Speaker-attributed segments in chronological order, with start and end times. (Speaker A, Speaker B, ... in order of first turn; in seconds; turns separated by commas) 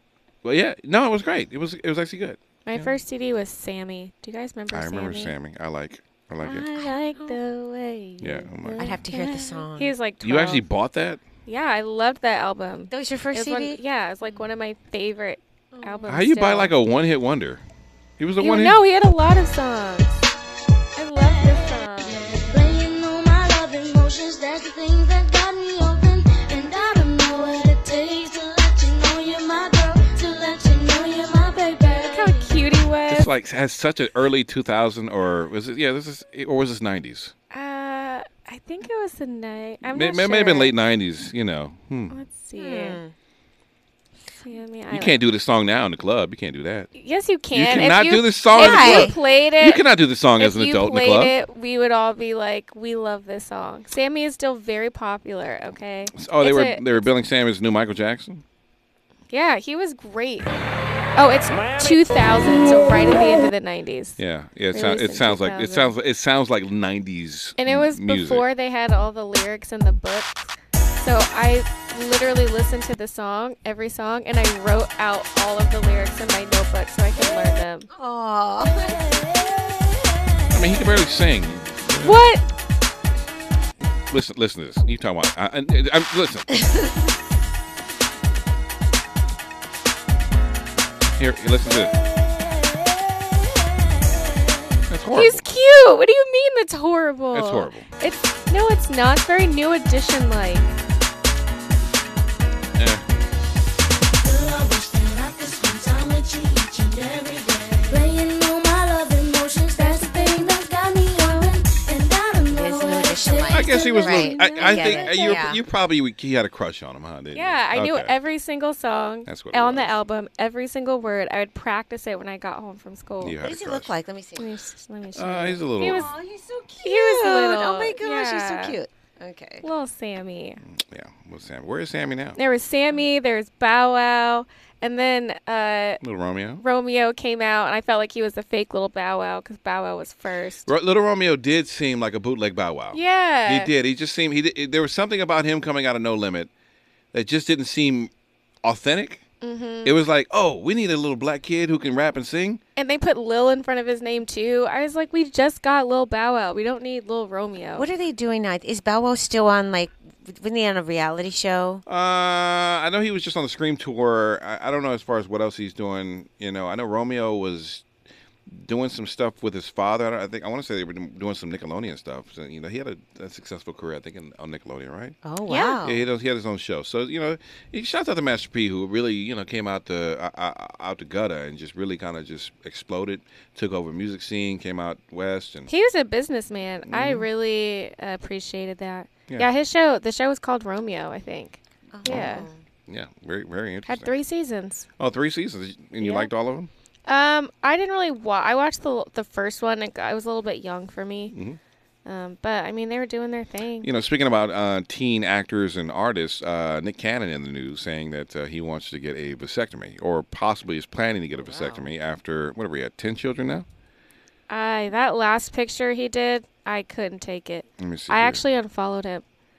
Speaker A: 0.4-2.9, Speaker B: 2.7-5.3, Speaker A: 4.7-6.7, Speaker B: 6.4-10.7, Speaker C: 6.5-7.4, Speaker A: 8.2-8.9, Speaker C: 8.8-9.9, Speaker A: 10.2-11.2, Speaker B: 11.5-16.7, Speaker C: 12.9-13.8, Speaker C: 15.8-16.0, Speaker A: 16.1-17.6, Speaker A: 18.2-18.8, Speaker B: 18.4-20.2, Speaker B: 21.0-22.2, Speaker D: 21.4-32.5, Speaker B: 32.0-33.3, Speaker A: 33.1-37.3, Speaker B: 37.5-40.7, Speaker A: 39.9-42.1, Speaker B: 42.1-43.0, Speaker C: 42.6-43.1, Speaker B: 44.4-45.2, Speaker A: 44.9-46.9, Speaker B: 46.9-49.8, Speaker A: 47.5-51.3, Speaker C: 48.5-49.1, Speaker B: 50.4-57.1, Speaker A: 56.1-58.4, Speaker B: 59.3-60.5, Speaker B: 61.2-64.2, Speaker A: 64.2-68.5, Speaker B: 64.7-65.9, Speaker B: 67.6-77.9, Speaker C: 77.9-79.0, Speaker A: 80.5-82.2, Speaker B: 82.0-82.5, Speaker A: 84.1-86.5, Speaker A: 91.2-92.0, Speaker A: 94.9-95.4, Speaker B: 95.1-100.8, Speaker A: 97.3-97.9, Speaker A: 102.8-103.0, Speaker D: 104.2-114.1, Speaker C: 112.5-115.6, Speaker A: 113.5-118.1, Speaker B: 113.6-115.4, Speaker B: 117.3-123.4, Speaker A: 119.3-120.0, Speaker A: 123.2-123.9, Speaker C: 123.4-124.5, Speaker B: 124.4-126.1, Speaker A: 125.2-126.1, Speaker C: 125.9-129.6, Speaker B: 126.8-128.8, Speaker B: 129.6-130.6, Speaker A: 130.7-132.4, Speaker B: 132.4-136.0, Speaker A: 136.0-136.6, Speaker B: 136.6-140.7, Speaker A: 140.7-146.5, Speaker B: 142.9-143.7, Speaker A: 147.1-148.1, Speaker A: 148.6-149.2, Speaker B: 149.4-149.9, Speaker A: 149.8-152.6, Speaker B: 152.8-157.9, Speaker C: 157.8-161.8, Speaker A: 161.9-167.8, Speaker A: 168.5-175.2, Speaker C: 175.2-176.1, Speaker B: 175.5-175.8, Speaker A: 175.8-185.7, Speaker B: 185.7-192.5, Speaker A: 186.9-187.3, Speaker C: 191.9-192.6, Speaker A: 192.1-192.3, Speaker A: 192.9-194.1, Speaker B: 193.9-194.9, Speaker A: 195.0-196.7, Speaker B: 196.0-196.3, Speaker B: 197.1-201.3, Speaker A: 201.3-201.6, Speaker B: 202.1-203.9, Speaker A: 203.8-213.7, Speaker C: 211.4-211.9, Speaker B: 214.5-219.2, Speaker A: 217.8-218.4